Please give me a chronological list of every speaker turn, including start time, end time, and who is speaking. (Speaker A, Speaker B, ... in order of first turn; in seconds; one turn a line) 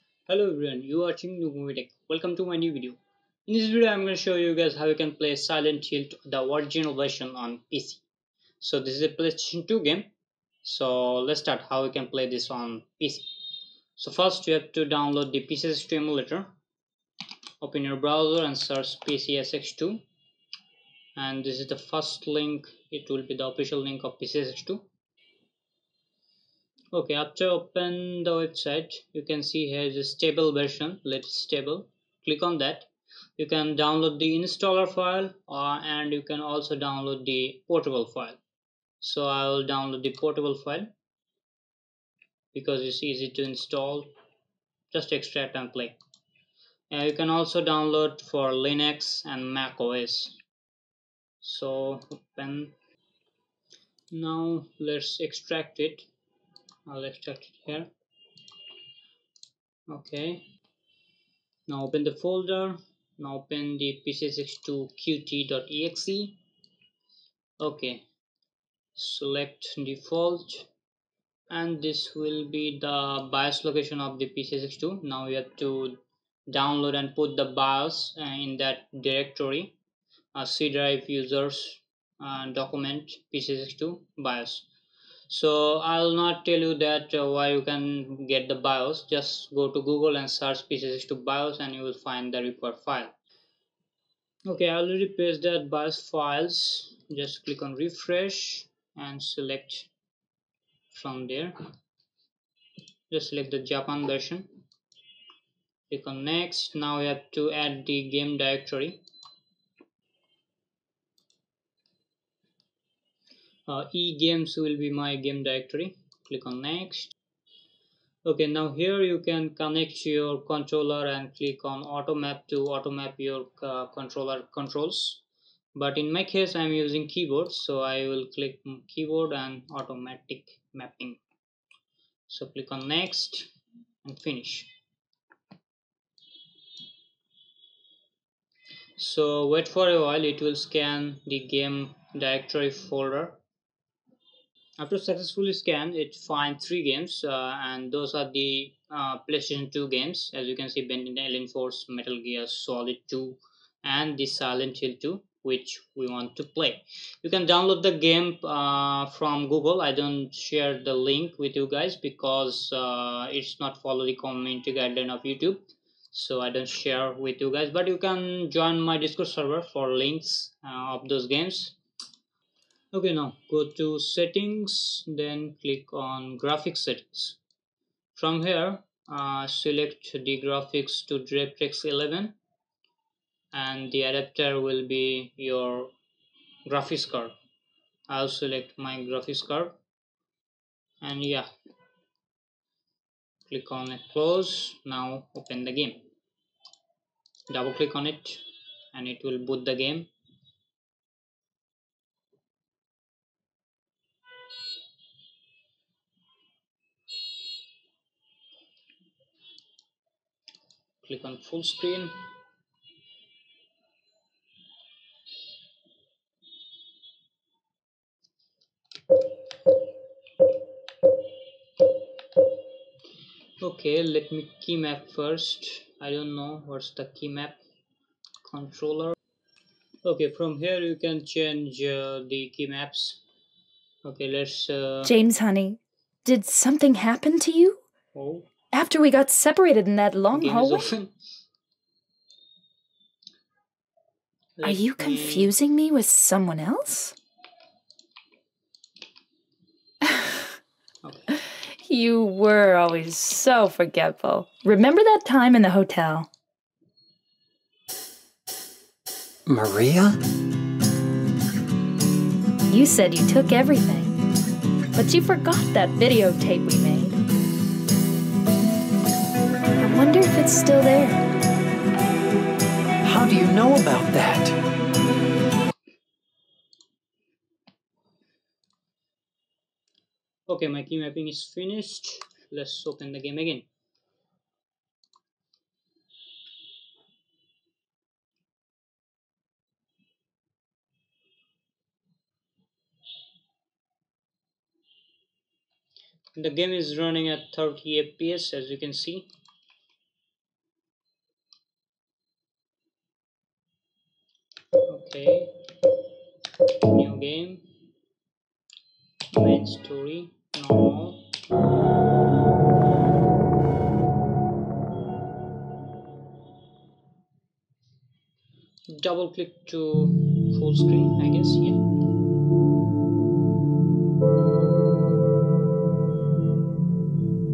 Speaker A: 0.3-8.0
Speaker A: 8.6-10.1
Speaker A: 10.6-13.3
Speaker A: 14.0-16.5
Speaker A: 17.6-20.0
Speaker A: 21.1-24.8
Speaker A: 26.9-38.4
Speaker A: 39.0-40.9
Speaker A: 42.5-44.1
Speaker A: 44.9-46.0
Speaker A: 46.9-50.4
Speaker A: 51.4-52.7
Speaker A: 54.1-56.1
Speaker A: 56.9-57.9
Speaker A: 59.9-60.4
Speaker A: 61.7-66.4
Speaker A: 67.6-68.0
Speaker A: 68.9-70.7
Speaker A: 71.5-79.8
Speaker A: 80.3-84.7
Speaker A: 85.3-93.1
Speaker A: 94.5-99.9
Speaker A: 100.9-101.6
Speaker A: 103.1-104.5
Speaker A: 105.9-109.0
Speaker A: 113.7-117.1
Speaker A: 118.2-125.2
Speaker A: 125.7-131.2
Speaker A: 132.3-133.5
Speaker A: 134.0-134.7
Speaker A: 139.0-143.4
Speaker A: 144.8-171.8
Speaker A: 172.9-177.4
Speaker A: 178.1-182.3
Speaker A: 183.5-185.9
Speaker A: 186.7-187.3
Speaker A: 188.1-189.8
Speaker A: 191.0-191.5
Speaker A: 193.5-196.0
Speaker A: 197.5-200.1
Speaker A: 211.0-212.2
Speaker A: 223.6-227.6
Speaker A: 228.4-229.1
Speaker A: 230.0-233.2
Speaker A: 234.0-235.1
Speaker B: 235.0-237.8
Speaker A: 238.1-238.5
Speaker B: 238.7-240.8
Speaker A: 240.3-241.1
Speaker A: 244.6-245.5
Speaker B: 244.6-247.1
Speaker A: 251.0-251.4
Speaker B: 251.8-256.3
Speaker C: 259.5-260.2
Speaker B: 262.7-264.1
Speaker B: 264.9-267.2
Speaker B: 269.8-271.2
Speaker C: 273.0-274.6
Speaker A: 280.5-283.6
Speaker A: 296.3-299.3
Speaker A: 304.9-305.5
Speaker A: 306.9-307.6
Speaker A: 309.3-311.2
Speaker A: 318.9-321.8